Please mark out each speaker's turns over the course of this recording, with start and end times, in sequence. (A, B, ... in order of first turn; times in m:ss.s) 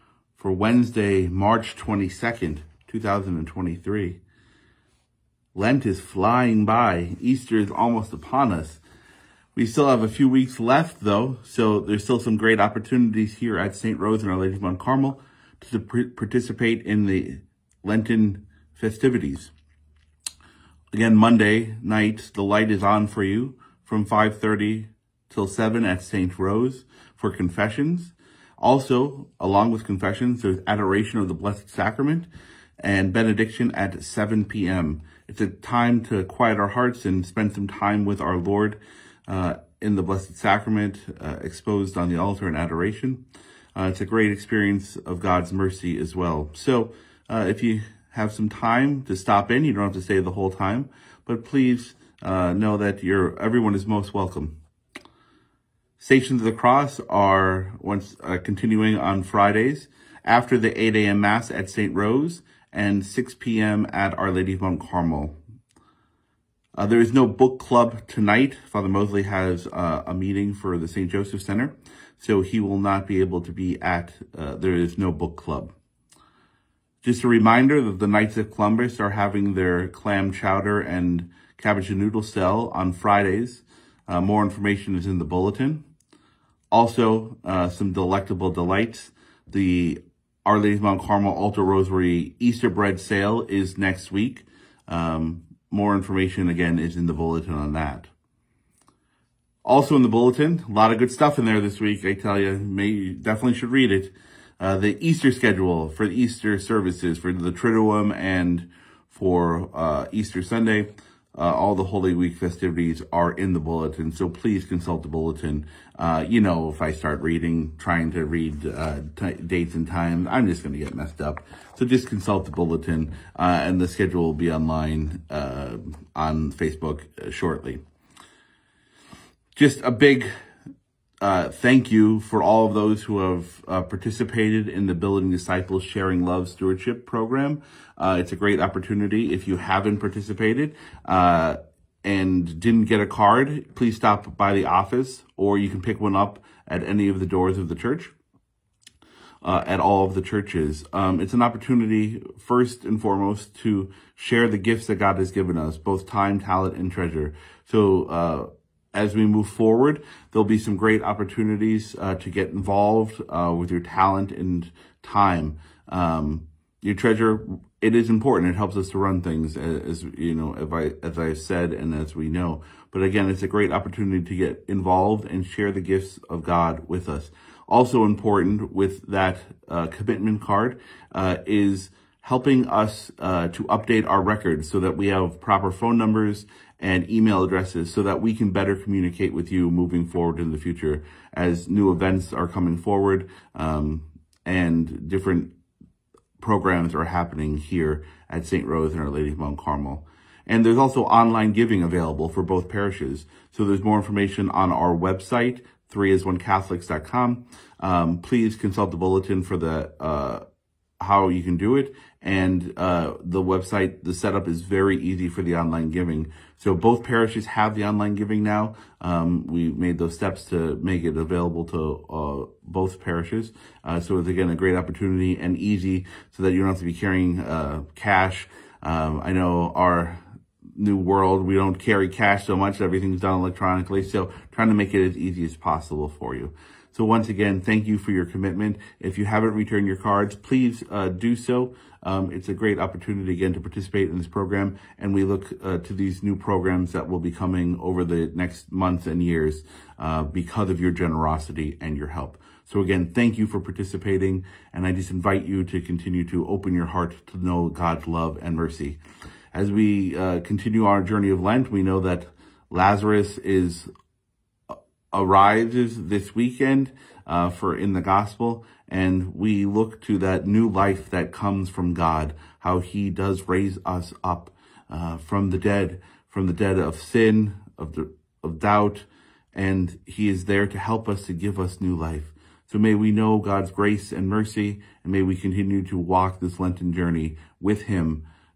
0:00.3-0:04.2 A
0:05.5-0:08.8 A
0:09.5-0:19.5 A
0:20.9-0:32.3 A
0:32.8-0:43.2 A
0:43.8-0:54.6 A
0:56.0-1:05.4 A
1:06.8-1:15.7 A
1:17.0-1:25.8 A
1:26.7-1:38.1 A
1:39.6-2:07.8 A
2:09.5-2:10.3 A
2:11.2-2:28.1 A
2:29.4-3:15.5 A
3:16.4-3:30.4 A
3:31.0-3:50.2 A
3:50.8-4:19.0 A
4:19.5-4:23.9 A
4:25.1-4:48.2 A